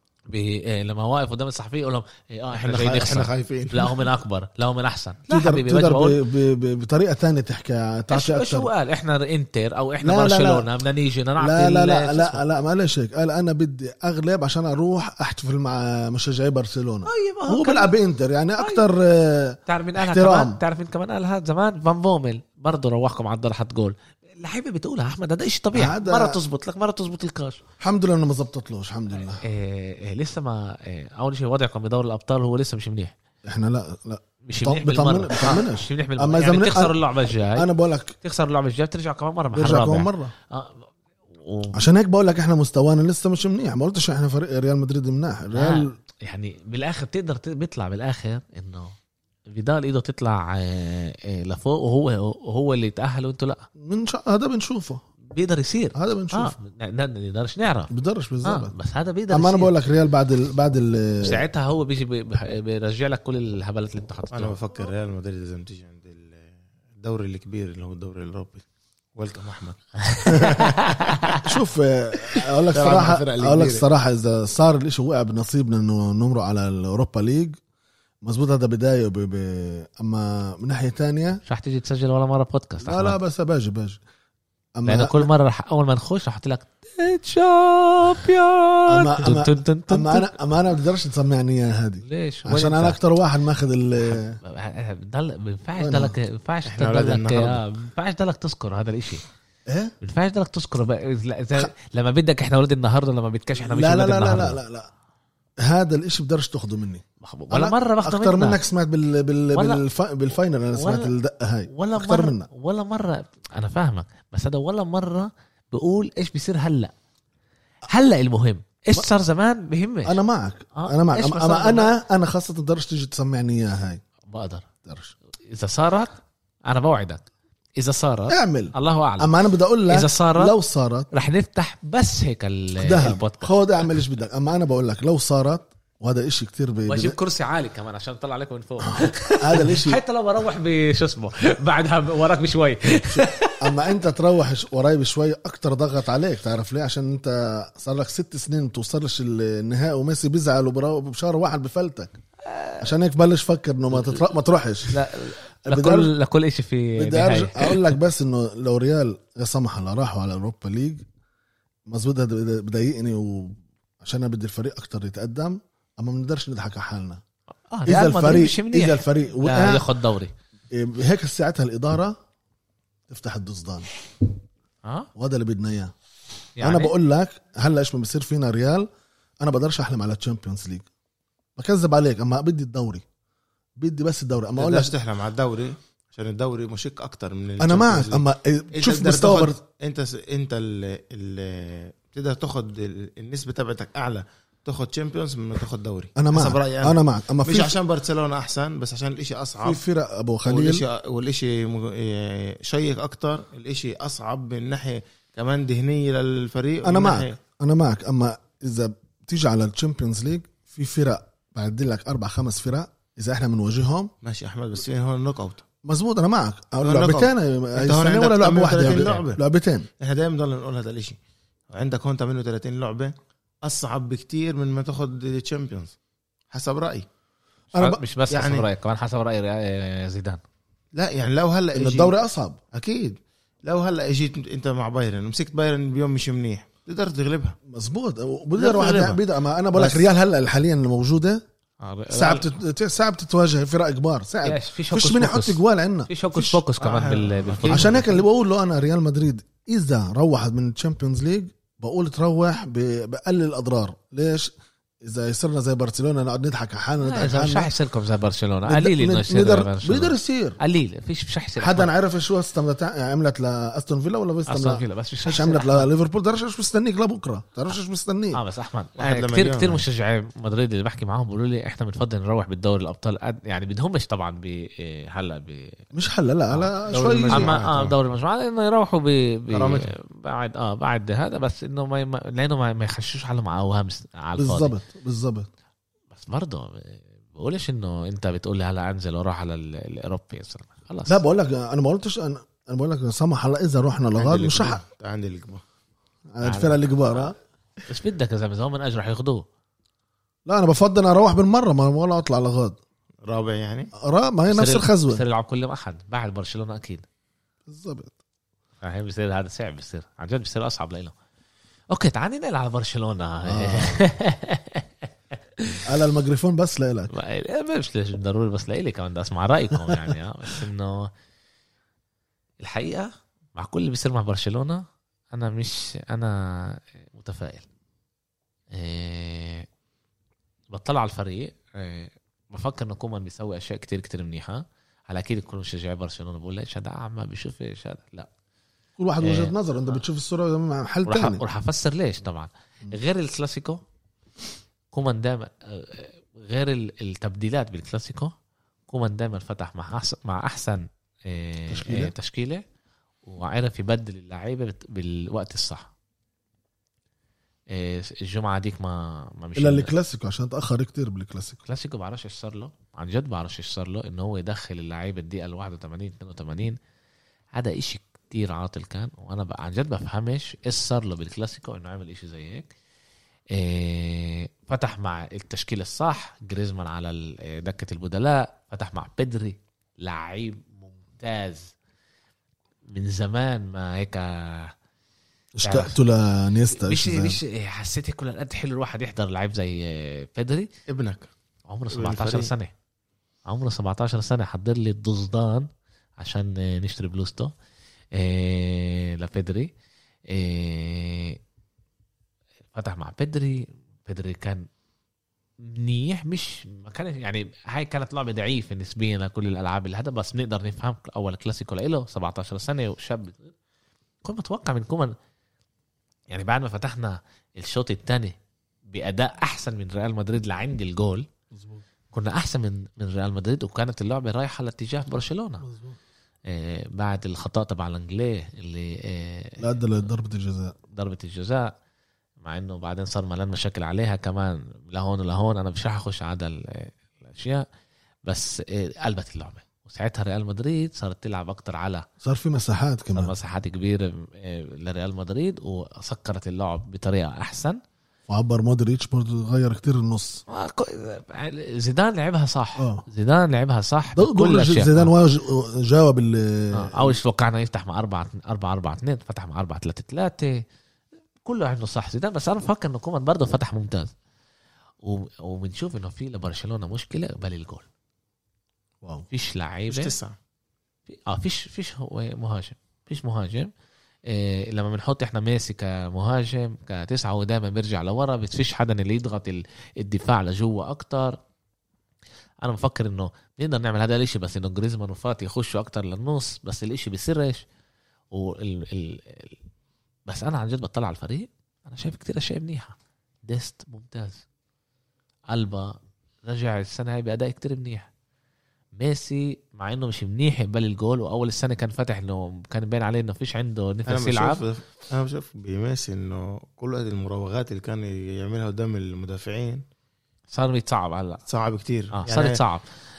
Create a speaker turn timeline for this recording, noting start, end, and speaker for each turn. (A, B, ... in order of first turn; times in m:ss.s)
0:00.3-0:06.2 A
0:02.5-0:04.0 B
0:05.3-0:08.7 C
0:08.1-0:12.4 A
0:10.0-0:10.7 C
0:11.4-0:20.6 C
0:17.0-0:17.9 A
0:18.6-0:18.8 A
0:19.7-0:27.6 A
0:25.7-0:26.4 C
0:27.8-0:29.4 C
0:29.4-0:33.1 A
0:33.4-0:37.0 C
0:34.4-0:37.7 A
0:37.5-0:38.2 C
0:38.2-0:41.8 A
0:39.5-0:40.3 C
0:41.7-0:45.9 C
0:45.5-0:49.0 A
0:49.5-0:53.7 A
0:53.8-0:55.0 C
0:55.2-0:57.9 A
0:55.9-0:56.5 C
0:57.9-0:58.7 C
0:58.4-0:59.7 A
0:59.3-1:01.4 C
1:01.2-1:04.6 A
1:04.3-1:08.6 B
1:09.2-1:11.4 B
1:10.0-1:11.4 A
1:11.4-1:17.6 C
1:12.7-1:13.9 B
1:18.2-1:21.4 C
1:21.4-1:23.2 A
1:22.8-1:24.0 C
1:24.8-1:25.3 C
1:24.8-1:30.3 A
1:28.9-1:34.4 C
1:32.0-1:33.0 A
1:34.0-1:39.2 A
1:35.8-1:36.2 C
1:36.6-1:37.6 B
1:39.7-1:39.9 C
1:40.0-1:44.6 A
1:43.6-1:44.9 C
1:45.6-1:52.5 C
1:47.2-1:48.6 A
1:49.5-1:49.8 A
1:50.7-1:51.1 A
1:51.7-1:56.9 A
1:57.9-2:00.2 A
2:00.0-2:04.0 C
2:00.7-2:01.9 A
2:04.3-2:04.7 A
2:04.8-2:05.1 C
2:05.5-2:07.2 A
2:07.8-2:09.3 A
2:08.3-2:11.1 C
2:09.9-2:10.5 A
2:11.1-2:13.5 A
2:12.8-2:17.2 C
2:16.9-2:23.7 A
2:18.9-2:20.0 C
2:23.1-2:32.1 C
2:32.4-2:32.9 A
2:32.8-2:35.0 C
2:34.9-2:37.9 A
2:35.6-2:36.1 C
2:37.0-2:41.0 C
2:41.9-2:47.2 C
2:47.7-2:50.3 A
2:47.9-2:49.9 C
2:50.7-2:52.2 C
2:53.1-2:53.9 C
2:55.2-2:55.9 C
2:56.6-2:56.9 A
2:56.6-2:58.9 C
2:59.4-3:00.9 C
3:01.6-3:03.0 C
3:03.8-3:04.9 C
3:04.6-3:19.8 B
3:07.6-3:09.6 C
3:16.2-3:17.8 C
3:19.6-3:20.8 C
3:20.4-3:27.4 B
3:26.8-3:34.1 C
3:34.2-3:35.6 B
3:35.8-3:39.9 C
3:36.8-3:39.4 B
3:40.0-3:41.2 B
3:41.7-3:45.9 B
3:46.5-3:47.1 B
3:47.7-3:50.4 A
3:47.7-3:48.0 C
3:48.3-3:48.7 B
3:50.9-3:52.1 B
3:51.7-3:52.6 C
3:52.7-3:57.6 B
3:57.7-4:01.4 C
3:58.6-3:59.2 B
4:01.8-4:02.5 A
4:02.1-4:06.6 C
4:04.4-4:08.2 A
4:06.8-4:07.9 B
4:07.6-4:14.5 C
4:15.0-4:17.7 C
4:17.0-4:21.9 A
4:18.6-4:20.6 C
4:21.6-4:28.4 C
4:24.5-4:25.9 A
4:28.3-4:35.8 A
4:29.0-4:29.8 B
4:35.9-4:37.5 C
4:36.5-4:44.7 A
4:36.9-4:37.9 B
4:39.5-4:39.9 B
4:44.4-4:45.5 C
4:46.1-4:51.2 A
4:51.1-4:54.8 C
4:54.2-4:55.6 B
4:56.3-4:57.3 C
4:56.4-4:57.3 A
4:57.9-4:59.4 A
5:00.4-5:02.8 C
5:03.2-5:03.9 B
5:04.0-5:05.2 C
5:04.5-5:07.0 A
5:07.7-5:08.1 C
5:08.8-5:11.1 A
5:11.9-5:15.1 A
5:13.4-5:14.0 C
5:15.6-5:15.8 A
5:15.8-5:17.1 C
5:17.1-5:21.1 A
5:19.9-5:20.1 C
5:22.6-5:27.7 A
5:28.7-5:29.7 A
5:30.7-5:38.3 A
5:39.0-5:41.4 C
5:39.2-5:40.0 A
5:41.0-5:43.8 A
5:44.9-5:48.3 A
5:48.9-5:52.6 A
5:51.7-5:52.1 C
5:53.2-5:55.9 A
5:57.7-5:59.9 A
5:59.6-6:01.6 C
6:01.6-6:06.8 A
6:07.5-6:12.7 A
6:13.5-6:21.7 A
6:22.9-6:24.7 A
6:25.6-6:27.4 C
6:25.6-6:26.0 A
6:26.7-6:30.7 A
6:30.9-6:31.3 B
6:31.7-6:32.7 A
6:31.9-6:32.5 B
6:33.4-6:35.7 A
6:36.2-6:37.5 A
6:38.1-6:39.7 A
6:40.3-6:41.4 A
6:42.7-6:44.7 A
6:45.6-6:53.5 A
6:54.2-6:55.1 A
6:56.3-6:58.4 A
6:58.9-7:01.3 A
7:01.5-7:01.8 C
7:02.1-7:05.6 A
7:05.6-7:06.0 C
7:06.5-7:09.7 A
7:09.6-7:10.8 C
7:10.9-7:11.7 A
7:12.4-7:17.6 A
7:18.2-7:22.0 A
7:22.2-7:23.3 C
7:23.1-7:27.8 A
7:28.3-7:30.4 C
7:30.5-7:35.1 A
7:32.8-7:33.0 C
7:34.1-7:37.2 C
7:36.7-7:40.6 A
7:41.4-7:44.1 A
7:45.0-7:47.8 A
7:49.3-7:50.2 A
7:49.9-7:50.3 B
7:51.1-7:53.7 A
7:54.3-8:01.4 A
8:02.6-8:07.6 A
8:08.3-8:09.6 A
8:10.3-8:14.4 A
8:15.5-8:18.1 A
8:19.0-8:24.6 A
8:24.1-8:29.8 B
8:30.5-8:31.4 A
8:31.5-8:32.6 B
8:32.1-8:32.9 A